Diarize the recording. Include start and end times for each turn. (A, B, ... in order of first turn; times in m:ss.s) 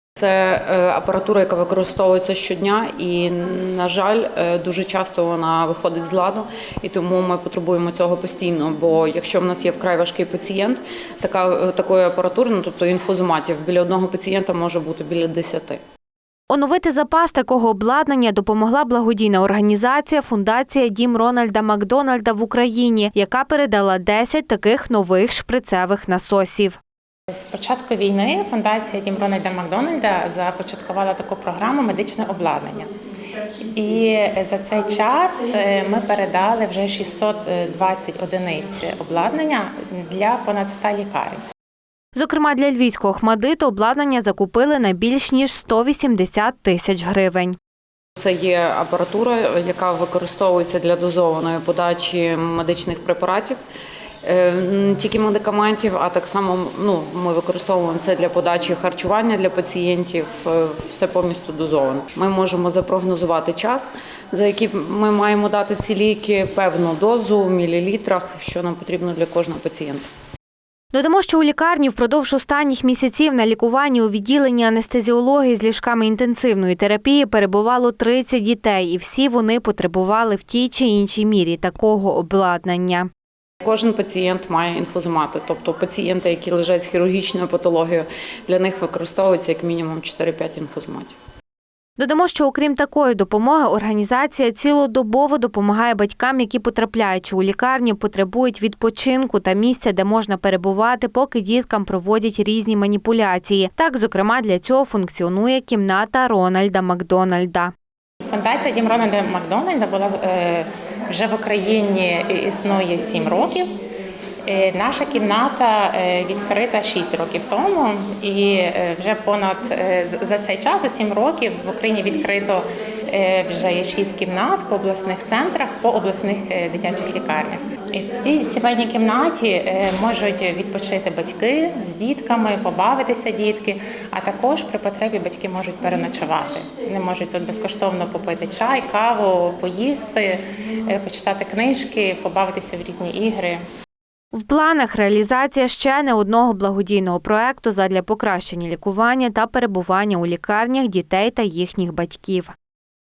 0:00.2-0:15.8 A
0:16.5-0:26.8 B
0:27.3-0:32.9 C
0:33.7-0:41.4 C
0:42.2-0:47.6 B
0:48.2-0:53.6 A
0:54.2-1:10.1 A
1:10.9-1:23.1 B
1:23.6-1:31.2 A
1:32.0-1:47.7 B
1:48.3-1:53.7 C
1:54.5-2:23.6 C
2:24.3-2:32.5 B